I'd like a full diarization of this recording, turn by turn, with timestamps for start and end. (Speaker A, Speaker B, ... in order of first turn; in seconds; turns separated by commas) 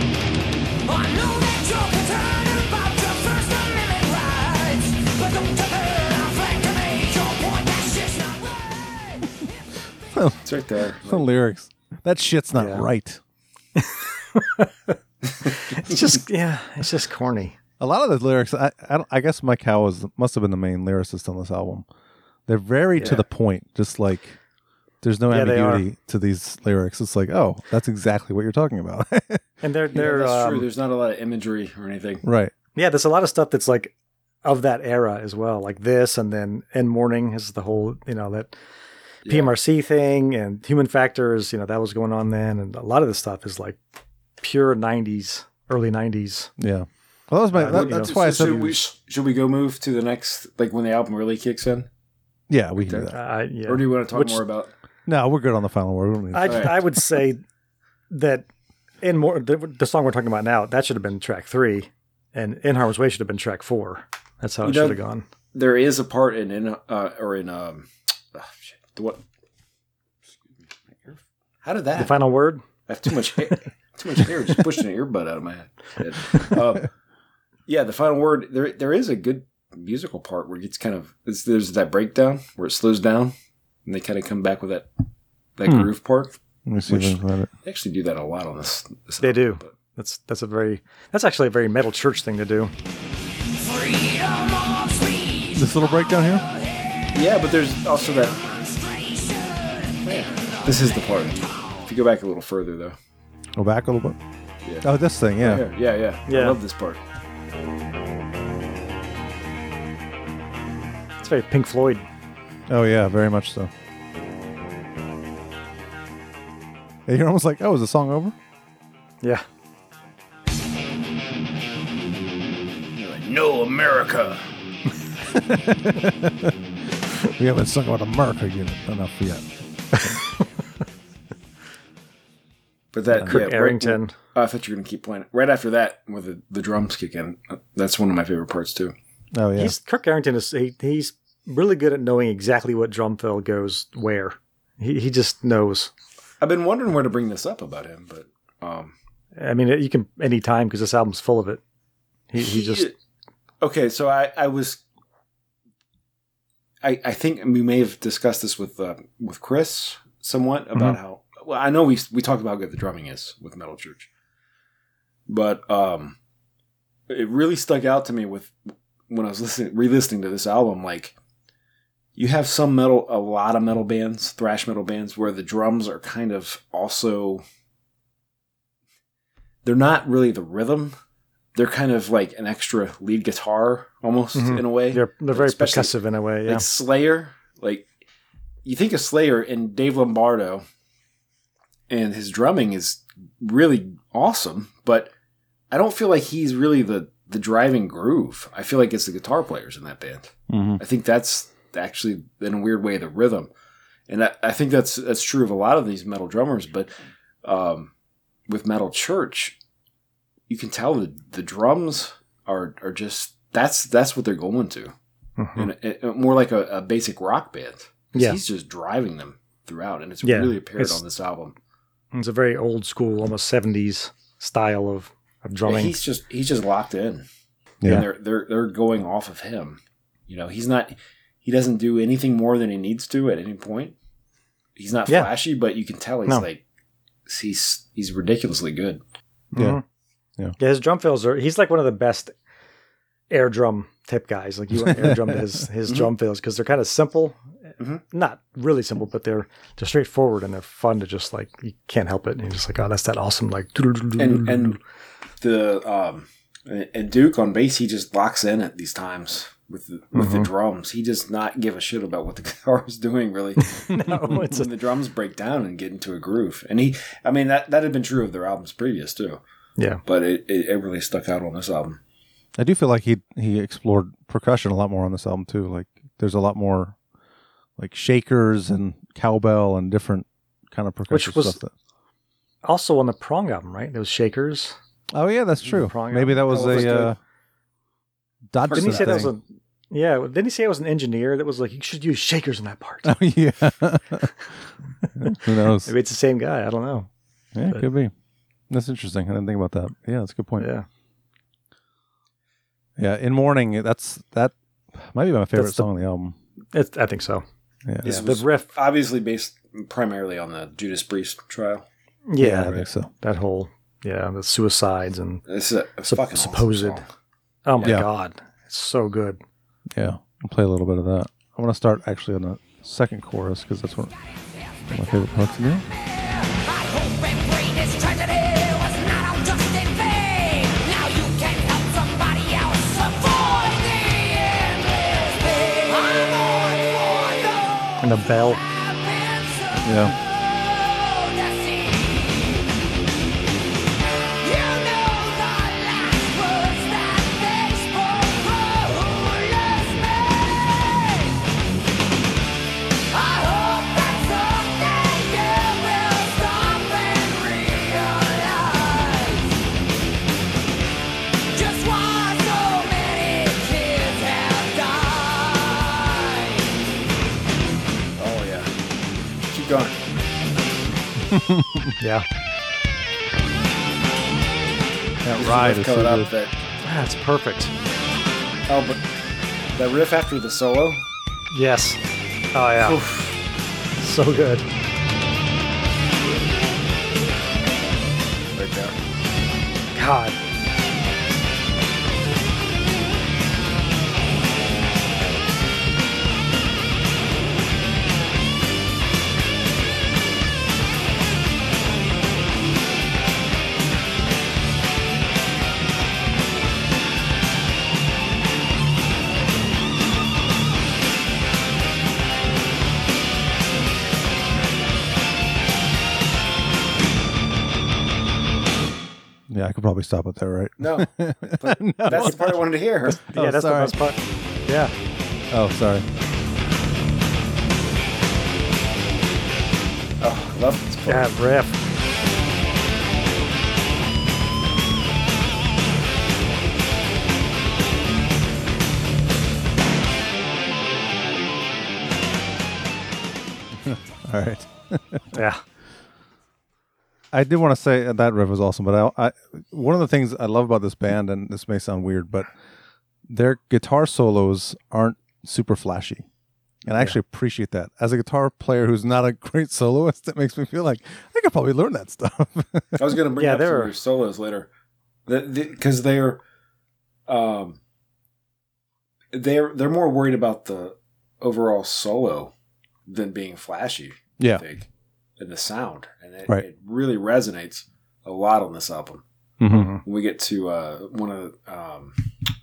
Speaker A: 0.8-9.3, Speaker B: 10.1-10.4, Speaker C: 10.4-11.3, Speaker B: 11.0-13.2, Speaker D: 12.6-12.9, Speaker D: 13.8-14.9, Speaker C: 15.5-16.0, Speaker D: 15.7-17.6, Speaker B: 17.8-21.9, Speaker B: 22.5-24.4, Speaker D: 23.0-23.2, Speaker B: 25.0-29.4, Speaker D: 25.3-25.9, Speaker D: 29.6-30.6, Speaker C: 29.9-32.2, Speaker B: 32.2-32.5, Speaker D: 32.8-33.9, Speaker D: 34.4-38.5, Speaker C: 39.2-39.5, Speaker D: 39.3-43.8, Speaker D: 44.4-46.5, Speaker B: 46.6-48.8, Speaker D: 47.5-48.6, Speaker C: 47.6-51.9, Speaker B: 52.5-53.1, Speaker C: 52.8-54.7, Speaker D: 53.1-53.9, Speaker B: 54.1-54.4, Speaker B: 55.1-56.9, Speaker D: 56.3-57.4, Speaker C: 56.4-56.8, Speaker D: 58.1-58.5, Speaker D: 59.0-65.2, Speaker C: 64.6-65.0, Speaker C: 65.5-69.2, Speaker C: 70.4-72.2, Speaker D: 72.0-72.6, Speaker C: 72.9-76.9, Speaker C: 77.7-83.3, Speaker C: 83.9-84.9, Speaker C: 85.6-89.7, Speaker B: 85.7-85.9, Speaker B: 86.7-87.5, Speaker D: 89.2-92.7, Speaker A: 93.6-97.1, Speaker B: 95.6-96.4, Speaker C: 97.1-98.4, Speaker A: 98.0-101.1, Speaker C: 100.0-103.0, Speaker B: 103.6-104.2, Speaker C: 104.7-107.0, Speaker B: 104.8-105.7, Speaker D: 106.3-106.6, Speaker D: 111.2-112.0, Speaker B: 112.7-113.7, Speaker B: 117.1-118.3, Speaker C: 123.0-124.4, Speaker B: 125.3-126.5, Speaker B: 127.3-130.2, Speaker C: 132.9-138.9, Speaker B: 133.1-133.4, Speaker D: 133.3-134.2, Speaker B: 139.3-139.8, Speaker D: 139.6-145.9, Speaker C: 146.4-148.9, Speaker D: 149.4-151.6, Speaker D: 152.3-152.9, Speaker C: 152.4-152.9, Speaker C: 153.6-154.8, Speaker C: 156.8-164.1, Speaker C: 165.3-166.2, Speaker C: 167.1-168.5, Speaker C: 169.1-171.2, Speaker C: 172.2-177.4, Speaker C: 179.6-180.9, Speaker C: 181.5-187.9, Speaker D: 184.3-186.6, Speaker C: 188.7-190.6, Speaker C: 191.9-195.1, Speaker C: 195.7-203.5, Speaker B: 200.5-200.8, Speaker C: 204.1-207.9, Speaker C: 208.5-209.6, Speaker C: 210.5-214.9, Speaker D: 215.4-215.7, Speaker C: 215.6-221.5, Speaker D: 218.1-218.4, Speaker D: 220.2-221.0, Speaker D: 222.1-226.0, Speaker C: 225.7-227.2, Speaker C: 227.8-233.9, Speaker C: 234.8-236.6, Speaker C: 237.3-239.0, Speaker D: 239.5-239.8, Speaker D: 240.6-242.3, Speaker D: 243.3-247.4, Speaker B: 244.8-245.4, Speaker D: 248.1-254.8, Speaker C: 254.2-254.8, Speaker C: 255.4-269.4, Speaker D: 260.1-260.5, Speaker D: 263.9-264.6, Speaker C: 270.1-272.0, Speaker B: 272.6-277.0, Speaker B: 277.8-281.7, Speaker D: 281.1-281.6, Speaker D: 282.6-284.8, Speaker B: 285.1-287.2, Speaker D: 285.7-287.1, Speaker C: 286.5-287.1, Speaker B: 288.5-289.3, Speaker C: 288.6-289.3, Speaker D: 288.7-293.1, Speaker B: 293.0-294.4, Speaker D: 295.1-297.1, Speaker B: 295.2-295.9, Speaker B: 297.5-298.1, Speaker B: 298.7-300.7, Speaker D: 300.6-300.9, Speaker B: 303.0-306.4, Speaker D: 305.5-305.9, Speaker D: 306.7-307.4, Speaker C: 308.0-311.9, Speaker D: 308.0-308.7, Speaker D: 312.3-315.4, Speaker B: 312.4-313.1, Speaker C: 315.5-317.1, Speaker D: 316.1-317.0, Speaker D: 317.6-319.4, Speaker B: 319.9-324.1, Speaker B: 324.9-325.9, Speaker A: 326.0-342.6, Speaker D: 338.0-338.6, Speaker B: 339.8-340.1, Speaker A: 344.4-351.5, Speaker A: 353.1-359.6, Speaker A: 361.5-366.7, Speaker C: 368.2-368.7, Speaker C: 369.5-370.0, Speaker B: 371.3-371.9, Speaker D: 372.0-372.2, Speaker B: 375.2-376.3, Speaker C: 375.4-376.5, Speaker D: 376.8-377.7, Speaker C: 378.7-379.0, Speaker C: 379.8-381.0, Speaker D: 381.5-382.0, Speaker D: 382.5-383.0, Speaker C: 382.8-383.4, Speaker D: 384.0-384.6, Speaker C: 388.5-389.0, Speaker D: 389.9-390.4, Speaker B: 419.5-424.0, Speaker C: 420.8-423.2, Speaker D: 423.1-424.9, Speaker B: 425.5-426.0, Speaker C: 430.2-431.3, Speaker D: 431.1-431.8, Speaker B: 443.8-445.2, Speaker D: 445.3-445.6, Speaker B: 447.3-452.5, Speaker B: 453.3-456.2, Speaker B: 456.9-463.2, Speaker D: 456.9-457.2, Speaker C: 463.0-464.7, Speaker D: 463.4-463.9, Speaker C: 465.3-466.4, Speaker C: 467.3-467.8, Speaker C: 469.3-472.5, Speaker C: 473.1-474.9, Speaker C: 475.4-479.2, Speaker B: 479.6-479.9, Speaker D: 479.7-480.0, Speaker C: 480.0-482.2